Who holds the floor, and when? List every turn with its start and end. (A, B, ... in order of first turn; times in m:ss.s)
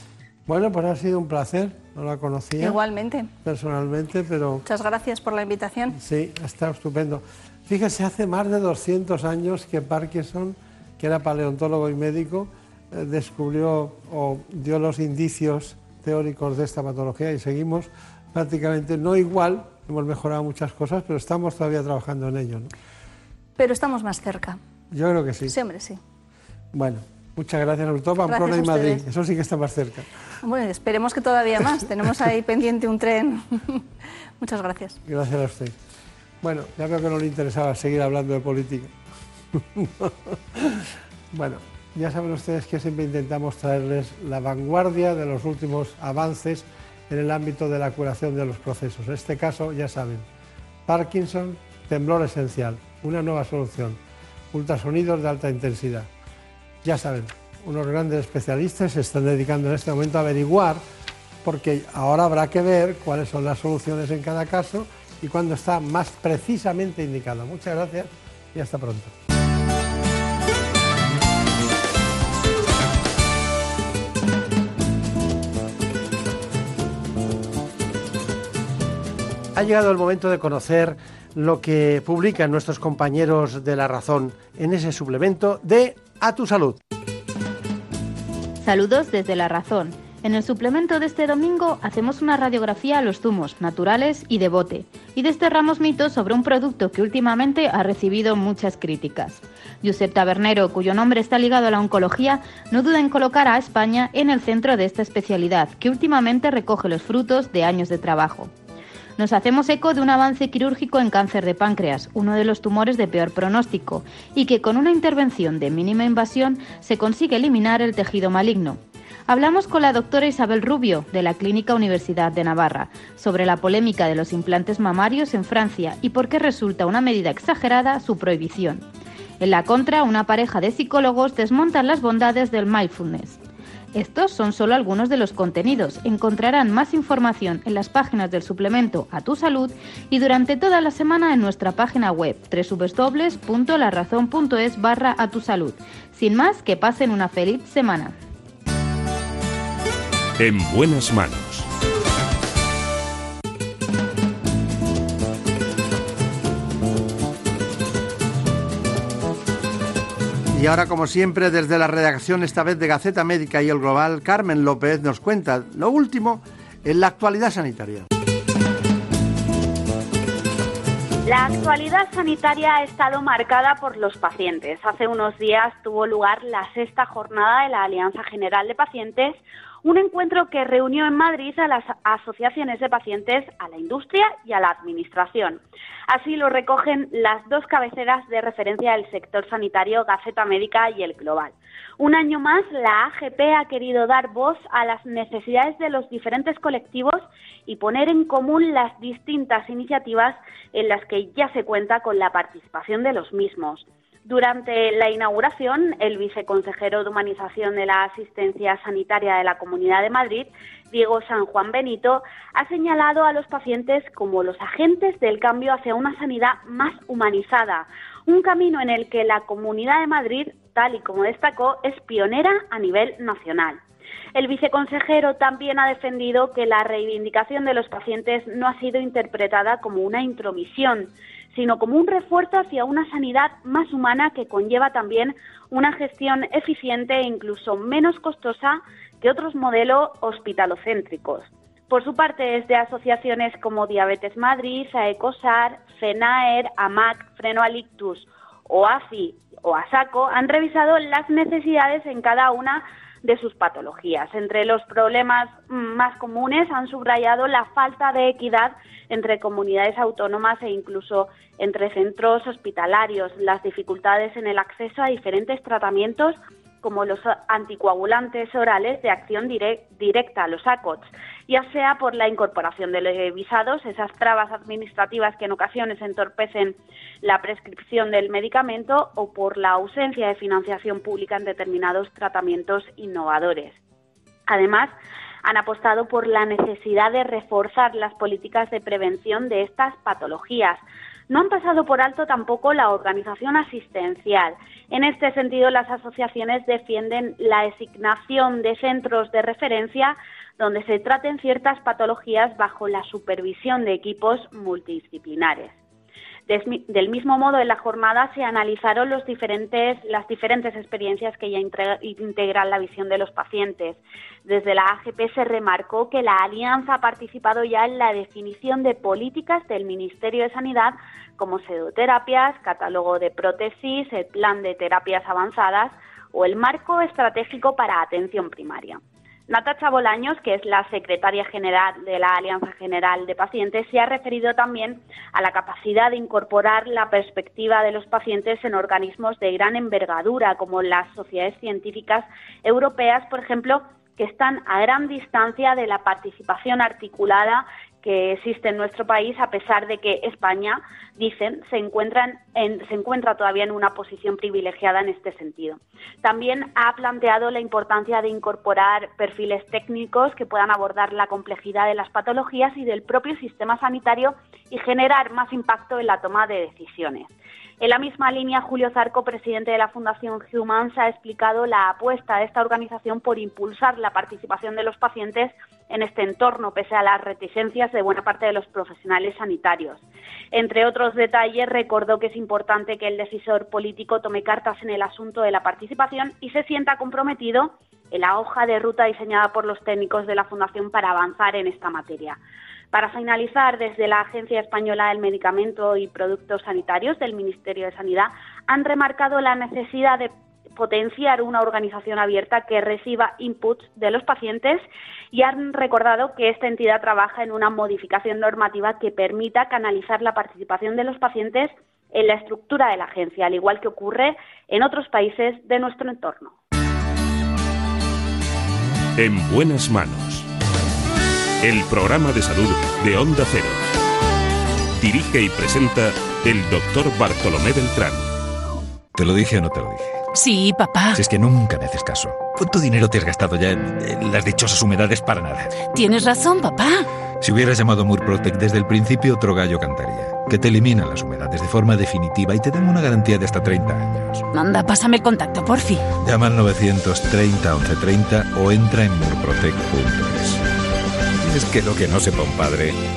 0:00.5-0:02.8 A
0:02.6-0:03.3 B
0:03.4-0:04.6 A
0:04.7-0:06.0 B
0:05.9-0:22.7 A
0:23.6-0:24.6 B
0:24.9-0:25.6 A
0:25.5-0:26.0 B
0:26.7-0:30.1 A
0:28.3-0:29.0 B
0:30.4-0:33.8 B
0:34.4-0:35.0 B
0:35.0-0:35.8 A
0:36.4-0:38.9 A
0:39.5-0:50.3 A
0:50.9-0:54.0 A
0:54.5-0:56.1 A
0:56.8-1:00.8 A
1:01.4-1:09.1 A
1:19.6-1:26.8 A
1:28.6-1:48.5 C
1:49.2-2:08.8 C
2:09.4-2:13.4 C
2:14.0-2:28.1 C
2:30.4-2:31.7 D
2:51.3-3:05.6 E
3:06.1-3:43.8 E
3:44.4-4:43.8 E
4:44.5-4:44.9 E
4:45.4-4:50.8 E
4:51.3-5:05.7 E
5:06.5-6:07.3 E
6:07.8-6:20.0 E
6:20.5-6:32.4 E
6:32.9-6:56.5 E
6:59.2-7:00.5 D
7:01.6-7:03.8 D
7:05.0-7:08.2 D
7:09.2-7:10.1 F
7:10.4-7:11.0 G
7:11.1-7:15.7 F
7:16.0-7:16.7 G
7:17.4-7:24.4 F
7:24.6-7:26.0 G
7:26.2-7:30.6 F
7:31.4-7:33.0 F